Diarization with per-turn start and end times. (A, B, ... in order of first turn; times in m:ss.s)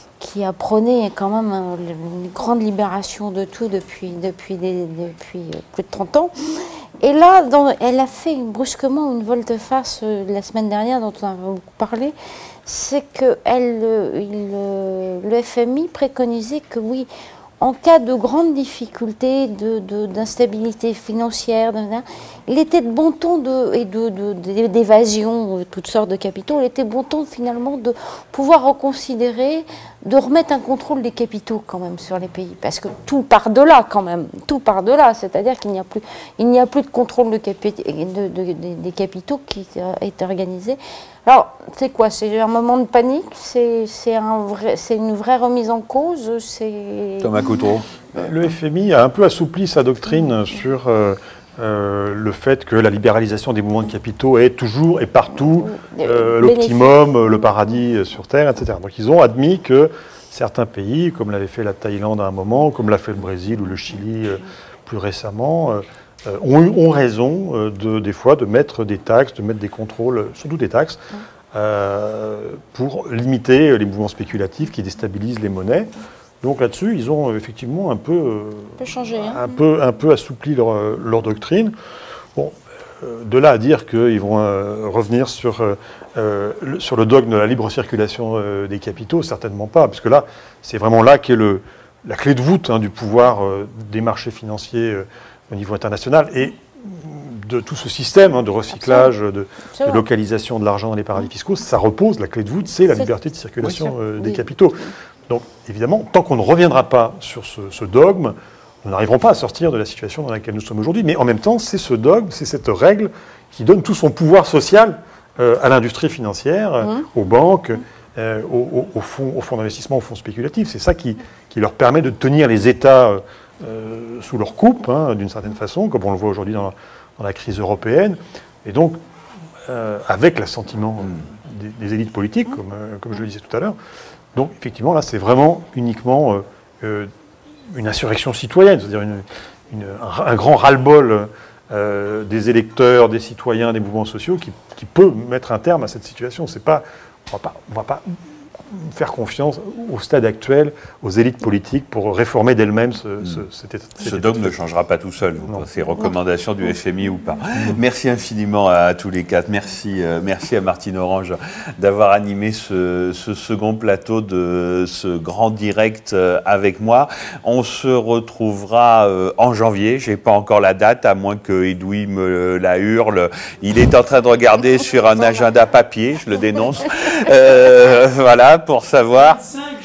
0:00.2-0:17.1 A
0:17.6-0:47.7 A
0:47.2-0:47.9 B
0:48.1-1:11.0 C
0:55.3-0:57.8 A
1:11.5-1:15.9 C
1:16.4-1:21.7 C
1:18.8-1:19.6 A
1:22.4-2:09.0 C
1:38.7-1:39.1 A
1:39.7-1:40.1 A
1:42.9-1:44.4 A
2:09.7-2:13.8 C
2:14.3-2:17.1 C
2:17.7-2:28.0 C
2:28.7-2:34.6 C
2:34.0-2:59.5 B
2:35.4-2:35.7 C